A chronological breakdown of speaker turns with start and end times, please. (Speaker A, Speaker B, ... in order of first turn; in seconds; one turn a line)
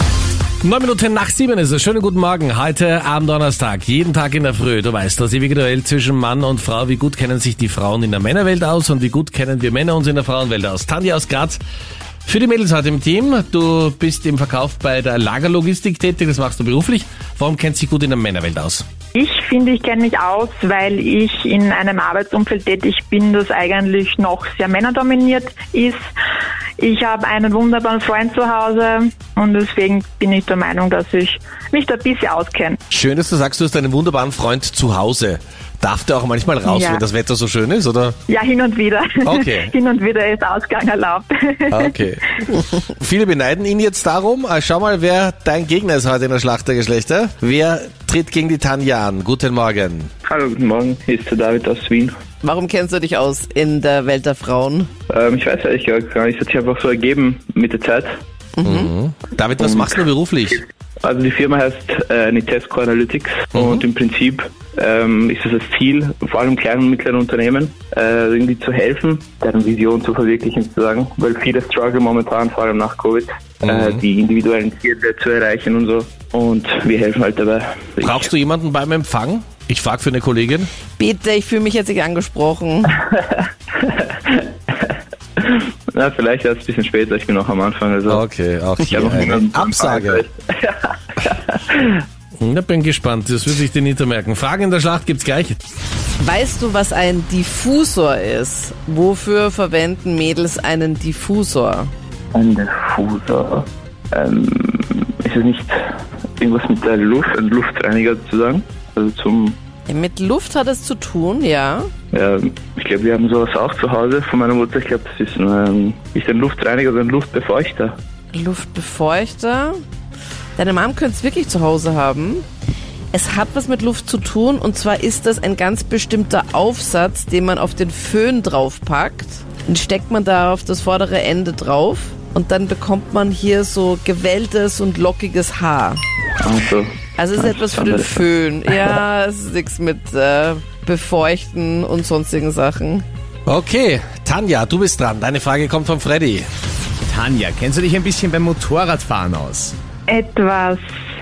Speaker A: 0.6-11.6
Speaker A: 12.2-18.8
Speaker B: 19.1-26.0
Speaker B: 26.8-32.8
Speaker A: 32.9-38.2
Speaker B: 36.6-37.0
Speaker B: 38.3-42.0
Speaker A: 39.2-39.7
Speaker A: 41.7-50.1
Speaker C: 50.3-52.1
Speaker D: 52.4-54.9
Speaker C: 55.1-58.1
Speaker D: 58.6-58.9
Speaker A: 58.6-60.6
Speaker C: 61.0-78.3
Speaker A: 63.5-63.8
Speaker A: 73.6-74.0
Speaker A: 78.0-80.7
Speaker D: 81.0-82.9
Speaker C: 83.3-84.9
Speaker C: 85.4-88.2
Speaker A: 88.1-90.2
Speaker C: 88.8-92.0
Speaker A: 92.4-95.5
Speaker D: 96.2-101.9
Speaker C: 102.3-105.8
Speaker C: 106.4-109.6
Speaker D: 109.9-111.9
Speaker C: 112.1-118.0
Speaker D: 118.3-119.8
Speaker D: 120.5-122.5
Speaker D: 123.1-136.0
Speaker C: 136.4-138.2
Speaker D: 137.2-143.1
Speaker A: 143.4-146.5
Speaker E: 147.1-149.8
Speaker B: 150.1-150.8